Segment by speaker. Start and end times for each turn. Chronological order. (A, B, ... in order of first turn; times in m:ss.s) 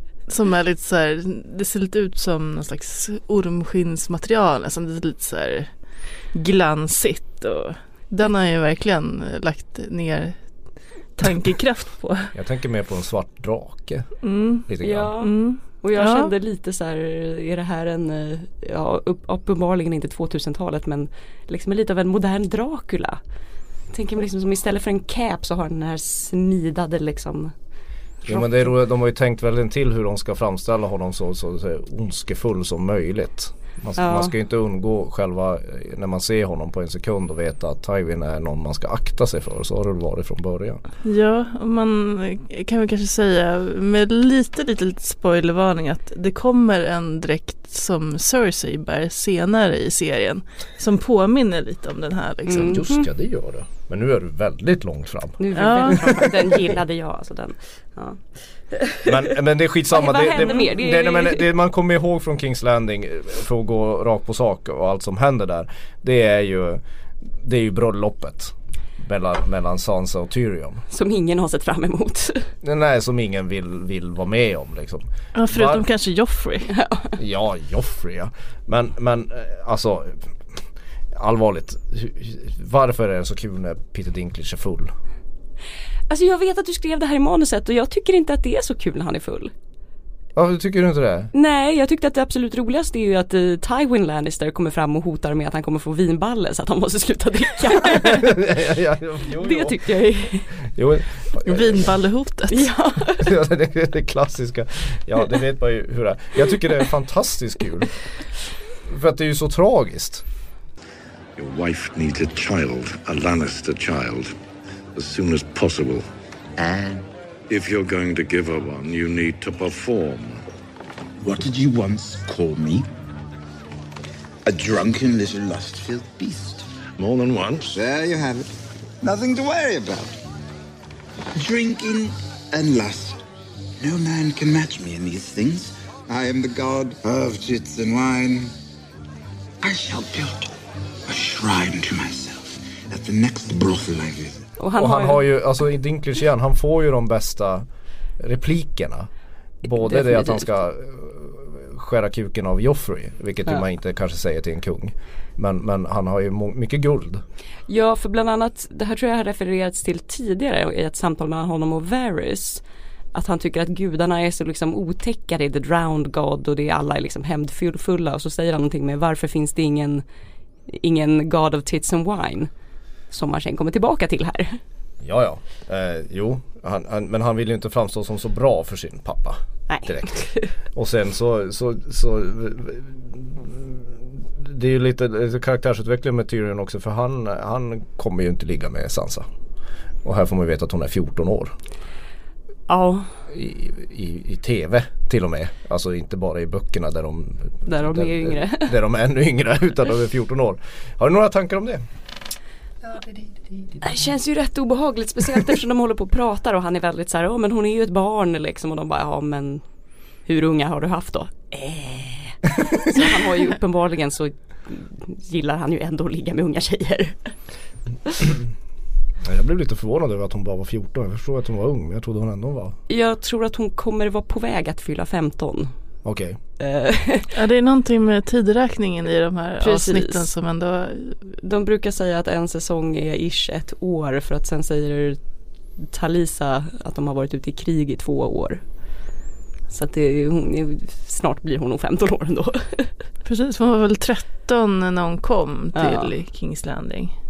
0:00.3-0:05.7 A
0:06.3-0:10.4 A
0:11.2-0:12.3 A
0:12.3-0:14.1 B
0:14.2-0:16.3 A
0:14.7-0:15.1 B
0:14.8-0:23.2 C
0:23.9-0:27.5 C
0:28.2-0:28.7 C
0:28.3-0:40.8 B
0:34.0-0:34.4 C
0:41.0-0:52.7 A
0:52.5-0:53.1 C
0:52.5-0:56.7 B
0:55.4-0:59.0 C
0:55.5-0:56.2 A
0:59.0-1:10.8 B
0:59.9-1:01.5 C
1:10.9-1:12.5 C
1:12.6-1:15.8 B
1:15.3-1:16.7 A
1:16.7-1:17.1 C
1:17.2-1:20.4 B
1:21.1-1:24.9 B
1:26.1-1:29.5 C
1:30.4-1:31.3 B
1:31.3-1:38.4 C
1:38.0-1:39.9 B
1:39.4-1:40.5 C
1:40.5-1:41.9 B
1:41.4-1:42.7 A
1:42.5-1:43.3 C
1:43.2-1:48.0 B
1:48.9-1:50.2 B
1:51.4-1:54.4 D
1:55.0-1:56.1 D
1:56.6-1:57.1 E
1:57.5-2:00.4 D
2:01.2-2:02.9 E
2:04.5-2:06.6 E
2:07.0-2:07.7 D
2:07.7-2:08.5 E
2:09.0-2:10.2 E
2:11.4-2:13.2 E
2:13.8-2:18.5 E
2:19.6-2:20.6 E
2:21.1-2:24.4 E
2:24.6-2:25.3 C
2:24.8-2:27.7 B
2:28.2-2:29.1 B
2:29.6-2:37.2 B
2:29.8-2:30.5 C
2:37.7-2:50.0 C
2:50.7-2:52.5 C
2:53.1-2:54.6 C
2:55.0-3:00.2 B
2:59.7-3:00.5 C
3:00.7-3:09.3 B
3:10.0-3:11.6 B
3:12.7-3:13.1 C
3:13.3-3:21.8 B
3:17.7-3:18.8 C
3:23.8-3:29.6 C
3:30.3-3:37.3 C
3:39.2-3:42.8 B
3:42.9-3:45.7 C
3:46.0-3:46.4 B
3:46.6-3:47.3 C
3:47.4-3:51.2 A
3:49.6-3:50.3 C
3:51.4-3:55.2 C
3:55.9-3:58.6 C
3:59.7-4:02.9 C
4:03.3-4:07.2 A
4:05.7-4:06.1 C